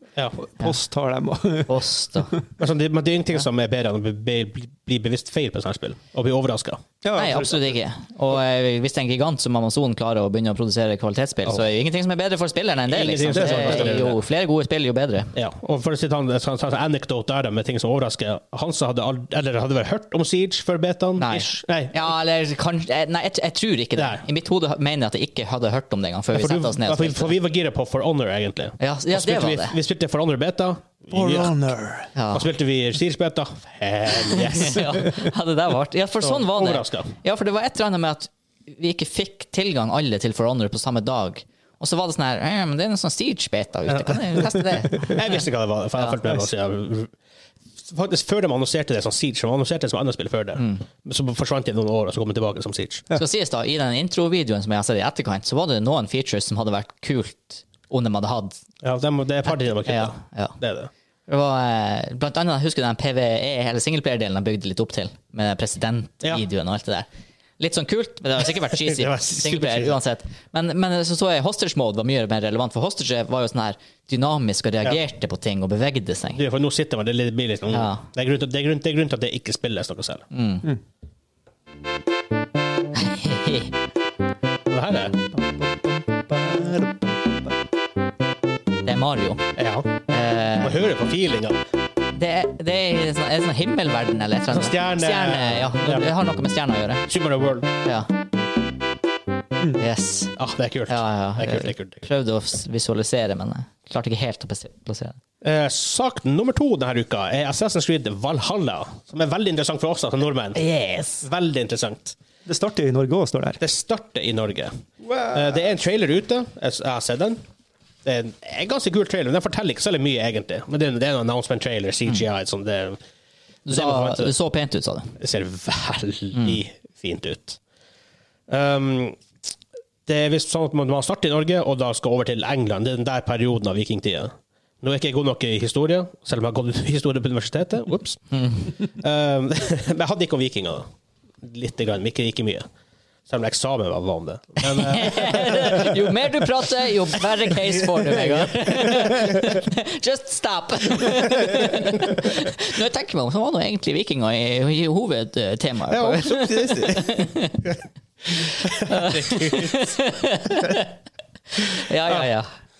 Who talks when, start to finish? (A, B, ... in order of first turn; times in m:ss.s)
0:00.5-0:01.7 A
0:01.7-0:02.3 B
0:02.6-0:06.8 C
0:07.0-0:07.6 A
0:07.1-0:15.3 B
0:12.9-0:14.2 C
0:13.3-0:14.0 A
0:15.3-0:22.1 C
0:21.2-0:27.3 B
0:24.0-0:24.2 C
0:26.3-0:31.6 C
0:28.8-0:29.8 B
0:31.1-0:32.1 A
0:32.1-0:32.5 B
0:32.3-0:35.0 C
0:34.3-0:45.4 B
0:36.2-0:37.1 C
0:43.9-0:47.1 C
0:47.8-0:53.1 C
0:50.6-0:50.8 B
0:53.1-0:58.6 B
0:58.8-1:00.9 C
0:59.8-1:00.6 B
1:01.3-1:07.1 B
1:07.6-1:16.4 B
1:08.7-1:10.0 C
1:16.4-1:20.2 C
1:17.7-1:18.0 B
1:20.3-1:20.7 B
1:22.9-1:23.7 B
1:24.7-1:25.2 C
1:25.4-1:27.1 A
1:28.8-1:29.4 B
1:29.6-1:29.9 C
1:30.1-1:30.8 B
1:30.6-1:31.6 C
1:32.1-1:37.0 B
1:34.5-1:36.1 C
1:37.1-1:37.7 C
1:37.8-1:38.1 B
1:39.7-1:40.3 B
1:40.4-1:42.0 C
1:40.9-1:45.2 B
1:45.4-1:50.6 C
1:50.6-1:51.2 B
1:51.2-1:52.2 C
1:52.4-1:53.6 A
1:53.6-1:54.7 C
1:55.0-1:55.6 A
1:55.3-1:57.4 C
1:58.0-2:03.0 C
2:03.6-2:05.1 B
2:03.7-2:04.3 C
2:05.2-2:07.6 C
2:08.5-2:09.2 C
2:10.0-2:18.3 C
2:18.8-2:20.9 C
2:21.4-2:22.6 C
2:23.3-2:26.0 C
2:24.6-2:37.6 B
2:35.9-2:37.2 C
2:38.4-2:40.9 B
2:38.6-2:39.9 C
2:41.5-2:42.5 B